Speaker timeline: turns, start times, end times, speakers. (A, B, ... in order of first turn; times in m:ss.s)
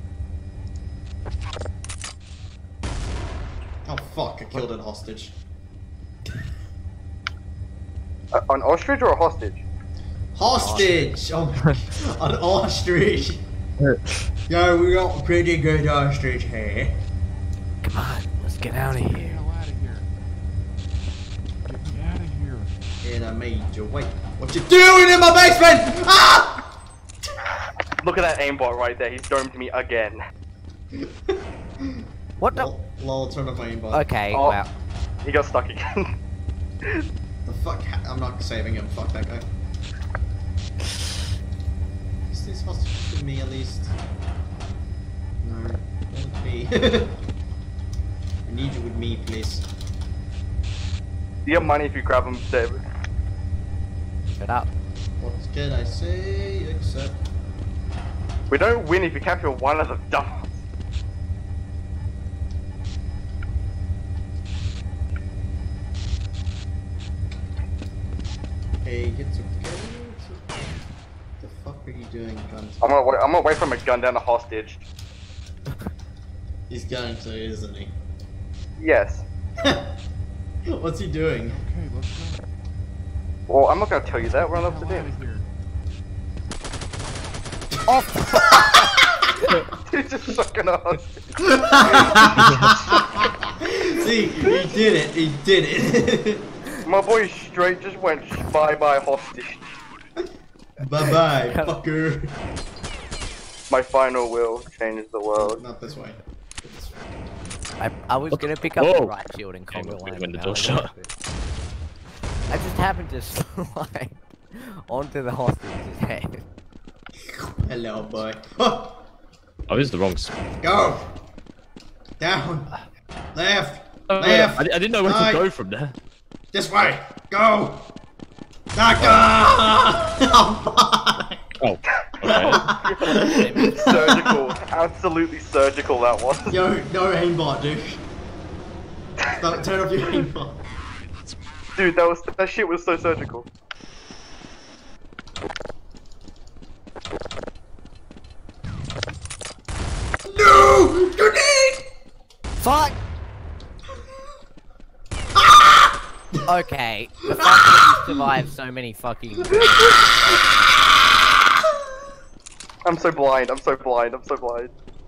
0:03.8-0:05.3 A
0:08.3-0:09.6 B
0:10.3-0:13.4 A
0:10.5-0:11.1 C
0:13.8-0:14.2 D
0:14.5-0:17.0 A
0:17.8-0:19.4 C
0:18.9-0:20.0 E
0:21.6-0:22.7 E
0:23.0-0:26.7 A
0:28.0-0:30.2 B
0:30.9-0:34.1 A
0:32.4-0:32.7 C
0:33.9-0:34.7 C
0:34.3-0:34.6 B
0:35.2-0:36.1 B
0:37.4-0:39.4 A
0:42.3-0:43.9 A
0:45.4-0:47.2 A
0:48.4-0:49.6 A
0:51.4-0:52.8 B
0:54.4-0:54.7 C
0:55.2-0:57.2 A
0:58.5-1:00.6 B
1:08.8-1:10.9 A
1:11.4-1:13.1 A
1:12.8-1:14.8 B
1:16.7-1:17.9 A
1:18.8-1:19.2 B
1:19.6-1:19.9 A
1:20.7-1:21.6 A
1:21.4-1:22.4 E
1:23.5-1:25.1 B
1:24.4-1:25.4 E
1:27.9-1:28.8 C
1:28.3-1:29.3 A
1:29.7-1:33.3 B
1:31.4-1:36.5 A
1:32.3-1:32.7 D
1:34.3-1:34.7 B
1:36.8-1:39.6 B
1:40.8-1:42.3 A
1:41.4-1:41.8 C
1:43.7-1:45.6 B
1:45.3-1:47.1 A
1:47.8-1:51.1 C
1:48.3-1:49.1 D
1:49.7-1:50.9 D
1:52.5-1:56.4 C
1:57.5-1:59.0 A
1:59.7-2:00.3 D
2:00.6-2:01.1 A
2:02.2-2:02.7 A
2:03.3-2:05.5 A
2:04.1-2:05.9 D
2:06.5-2:07.9 A
2:08.7-2:11.5 A
2:11.6-2:12.7 D
2:12.2-2:16.6 B
2:12.2-2:14.6 A
2:13.1-2:13.9 C
2:16.5-2:18.0 A
2:19.3-2:20.7 A
2:21.8-2:23.4 B
2:30.2-2:31.9 A
2:32.6-2:33.0 C
2:35.4-2:36.4 A
2:36.5-2:39.9 C
2:37.3-2:38.3 A
2:39.4-2:40.0 B
2:39.8-2:40.3 A
2:42.8-2:44.7 B